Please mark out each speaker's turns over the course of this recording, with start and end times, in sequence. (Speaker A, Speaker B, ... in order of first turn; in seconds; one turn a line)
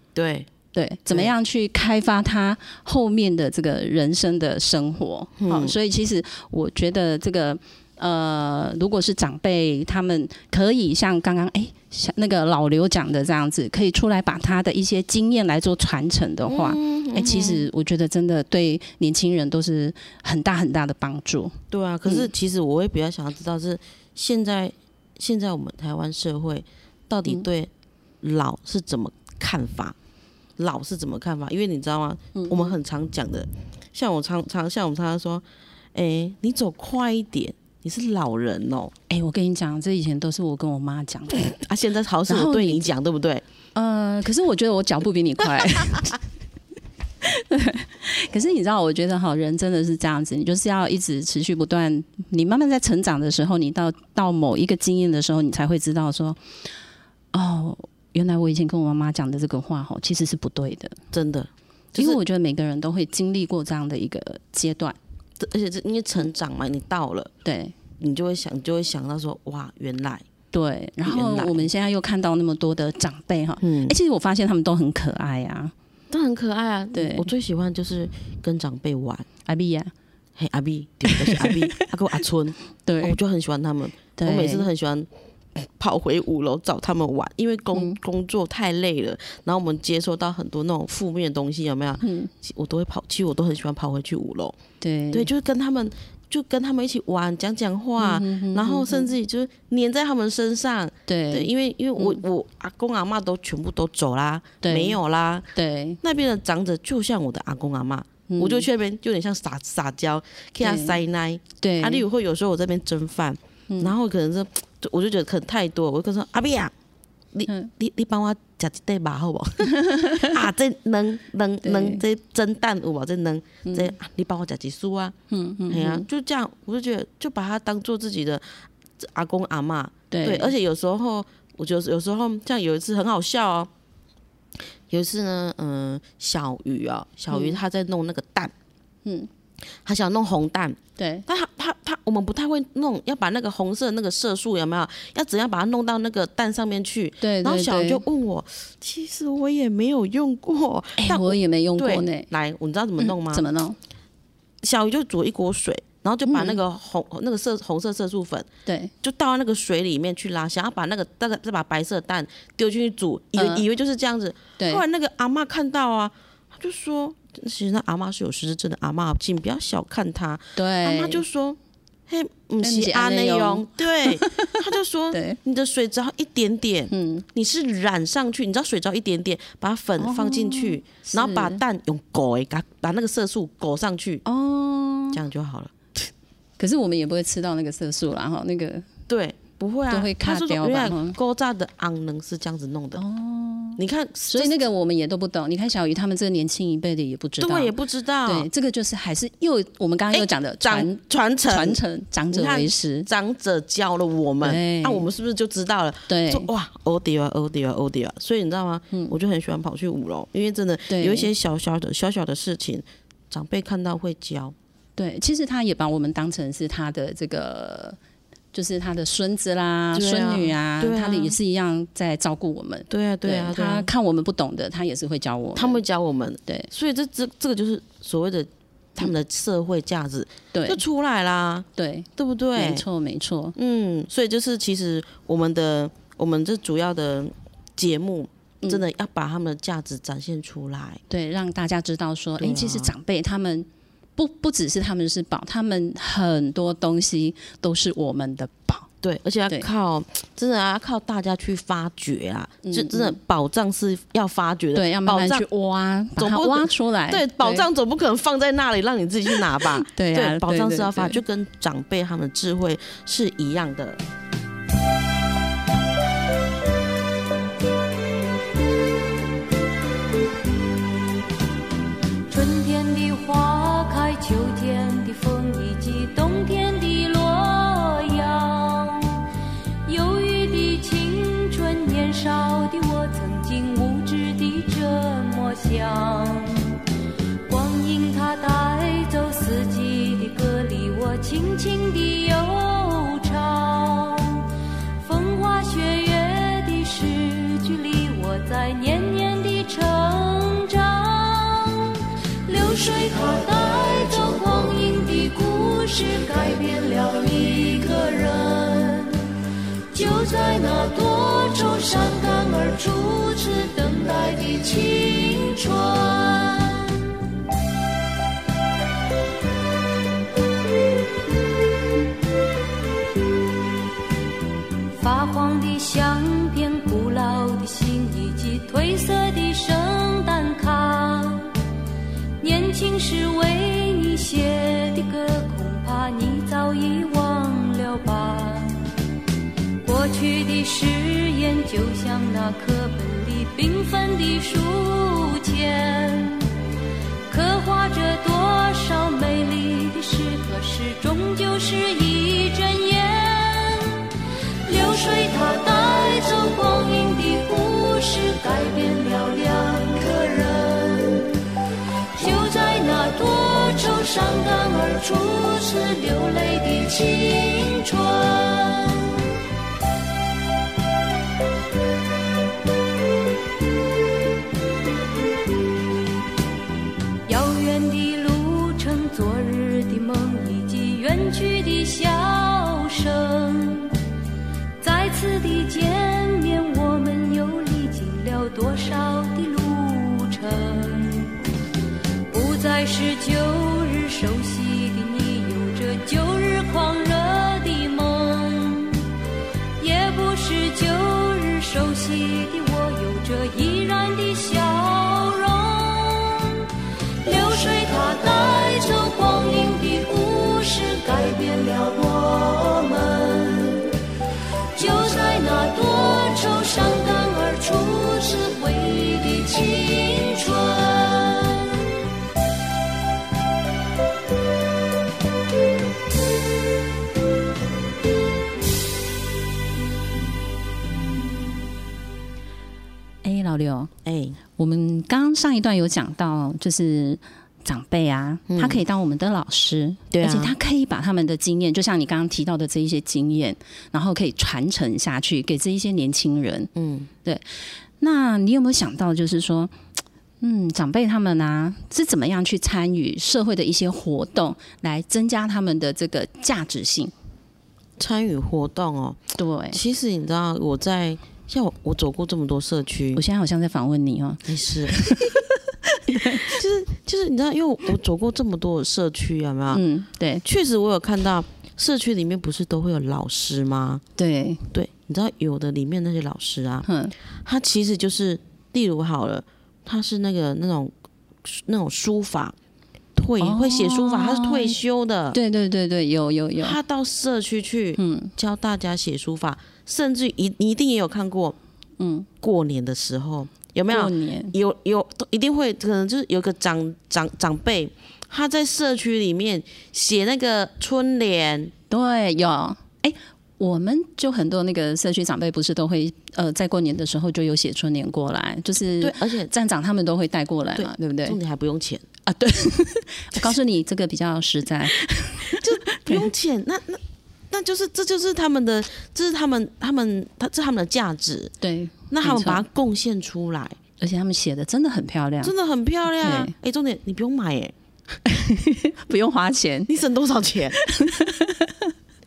Speaker A: 0.1-0.5
Speaker B: 0.7-22.3
Speaker A: 5.4-5.8
Speaker A: 16.5-17.7
Speaker A: 21.7-30.0
Speaker A: 30.6-38.9
Speaker B: 32.4-32.7
Speaker B: 39.1-41.6
Speaker A: 41.5-43.4
Speaker B: 42.3-42.9
Speaker B: 43.8-46.2
Speaker B: 47.2-56.4
Speaker B: 57.3-61.0
Speaker A: 61.1-62.2
Speaker B: 62.0-65.0
Speaker A: 65.4-67.3
Speaker B: 67.4-67.8
Speaker A: 68.0-70.3
Speaker B: 70.5-75.7
Speaker A: 71.0-71.7
Speaker A: 73.6-74.0
Speaker A: 76.1-79.3
Speaker B: 76.9-77.3
Speaker B: 79.5-79.9
Speaker A: 80.4-94.6
Speaker B: 81.1-81.9
Speaker B: 82.8-83.2
Speaker B: 84.2-84.7
Speaker B: 92.0-92.3
Speaker B: 94.8-95.3
Speaker A: 95.1-105.5
Speaker B: 98.0-99.1
Speaker B: 101.1-102.2
Speaker B: 104.6-105.0
Speaker B: 105.5-106.0
Speaker A: 106.0-116.7
Speaker B: 108.3-108.7
Speaker B: 110.6-111.0
Speaker B: 111.6-112.0
Speaker A: 117.3-125.2
Speaker B: 119.7-120.3
Speaker B: 121.6-122.0
Speaker B: 123.7-123.9
Speaker B: 125.3-126.0
Speaker A: 125.7-128.4
Speaker A: 129.0-133.7
Speaker B: 130.1-130.5
Speaker A: 134.9-138.5
Speaker B: 137.3-137.6
Speaker B: 139.1-139.3
Speaker A: 139.8-153.5
Speaker B: 141.0-141.2
Speaker B: 147.2-148.0
Speaker B: 151.0-152.3
Speaker B: 153.0-153.8
Speaker A: 154.6-158.5
Speaker B: 156.3-156.6
Speaker B: 158.7-158.9
Speaker A: 159.0-184.2
Speaker B: 163.4-163.6
Speaker B: 164.6-164.8
Speaker B: 170.6-171.2
Speaker B: 172.6-175.4
Speaker B: 176.9-177.2
Speaker B: 180.0-181.6
Speaker B: 184.2-185.2
Speaker A: 185.1-185.8
Speaker B: 186.6-188.8
Speaker A: 189.1-193.0
Speaker B: 189.9-191.2
Speaker B: 193.0-197.7
Speaker A: 193.8-194.6
Speaker A: 197.4-198.5
Speaker B: 198.3-203.1
Speaker A: 200.1-214.6
Speaker B: 204.4-205.1
Speaker B: 206.1-206.5
Speaker B: 210.9-211.3
Speaker B: 215.0-218.0
Speaker B: 218.5-225.8
Speaker A: 219.9-221.4
Speaker A: 222.9-223.9
Speaker A: 225.6-232.9
Speaker B: 230.5-230.8
Speaker B: 231.8-233.6
Speaker A: 233.6-241.0
Speaker B: 241.1-248.9
Speaker A: 242.4-242.9
Speaker A: 249.0-255.5
Speaker B: 252.6-253.2
Speaker B: 254.8-257.7
Speaker A: 256.2-264.0
Speaker B: 259.6-261.2
Speaker C: 272.3-279.2
Speaker C: 279.9-286.8
Speaker C: 287.5-294.4
Speaker C: 295.0-309.2
Speaker C: 309.9-316.9
Speaker C: 324.9-331.5
Speaker C: 332.4-338.8
Speaker C: 339.8-346.5
Speaker C: 347.3-354.0
Speaker C: 354.7-361.4
Speaker C: 362.2-369.2
Speaker C: 377.3-383.9
Speaker C: 384.8-391.4
Speaker C: 392.3-399.1
Speaker C: 399.8-406.7
Speaker C: 407.2-413.9
Speaker C: 414.8-421.7
Speaker B: 433.2-433.9
Speaker A: 434.0-434.4
Speaker B: 434.6-446.7
Speaker A: 438.5-438.8
Speaker A: 440.1-440.6
Speaker A: 446.8-447.1
Speaker B: 448.0-449.7
Speaker B: 450.4-457.1
Speaker A: 458.0-459.2
Speaker B: 459.4-459.8
Speaker A: 459.7-463.2
Speaker B: 463.1-465.4
Speaker A: 464.4-465.0
Speaker B: 466.1-466.5
Speaker A: 466.3-469.8
Speaker B: 469.7-470.4
Speaker A: 470.4-474.0
Speaker B: 474.2-474.7
Speaker A: 474.7-476.9
Speaker B: 476.9-477.1
Speaker A: 477.4-480.9
Speaker A: 481.4-482.6
Speaker A: 483.1-485.4
Speaker B: 483.4-484.8
Speaker B: 485.3-486.8
Speaker A: 486.6-491.6
Speaker B: 488.0-488.3
Speaker B: 492.0-492.3
Speaker A: 492.4-501.7
Speaker B: 493.9-494.6
Speaker B: 501.9-511.4
Speaker A: 509.0-509.5
Speaker A: 510.8-512.1
Speaker B: 512.3-516.3
Speaker A: 515.5-521.5
Speaker B: 521.6-522.6
Speaker A: 522.1-523.8
Speaker B: 524.0-525.5
Speaker A: 525.4-527.7
Speaker B: 526.2-526.5
Speaker B: 528.3-530.0
Speaker A: 529.9-530.8
Speaker B: 530.8-531.9